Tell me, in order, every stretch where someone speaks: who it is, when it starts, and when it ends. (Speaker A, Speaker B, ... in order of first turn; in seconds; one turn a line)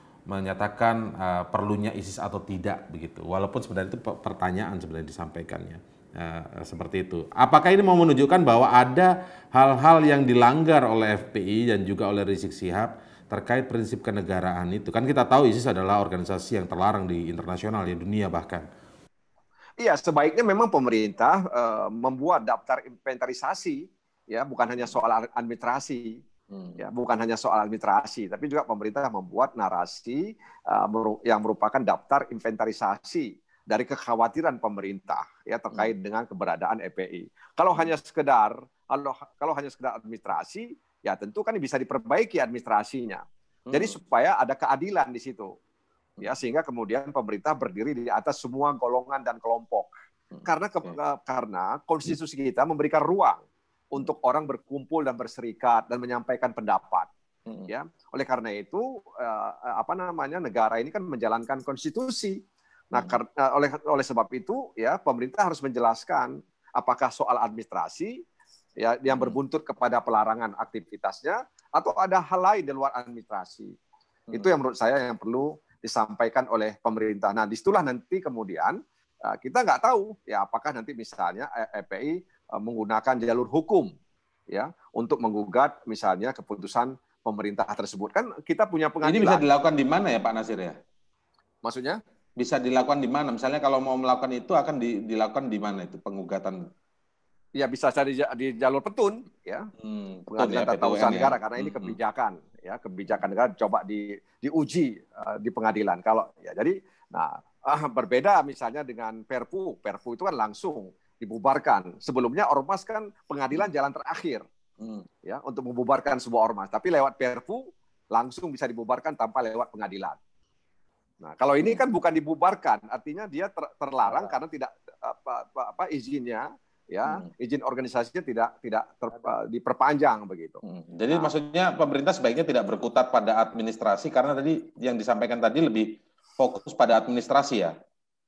Speaker A: 0.3-18.6
Speaker B: 19.8-26.2
Speaker A: 26.5-26.8
Speaker B: 26.8-45.5
Speaker A: 43.7-44.0
Speaker B: 46.2-49.9
Speaker A: 50.3-51.0
Speaker B: 50.5-57.1
Speaker B: 57.7-62.4
Speaker B: 62.9-68.1
Speaker B: 68.8-73.7
Speaker A: 69.1-69.4
Speaker B: 74.3-83.9
Speaker B: 84.5-89.4
Speaker A: 89.0-90.8
Speaker B: 91.6-92.0
Speaker A: 92.4-96.6
Speaker B: 97.6-99.7
Speaker A: 99.8-102.0
Speaker B: 100.3-114.4
Speaker B: 115.2-117.6
Speaker B: 118.1-120.2
Speaker B: 121.2-130.6
Speaker A: 124.0-124.3
Speaker A: 130.6-137.7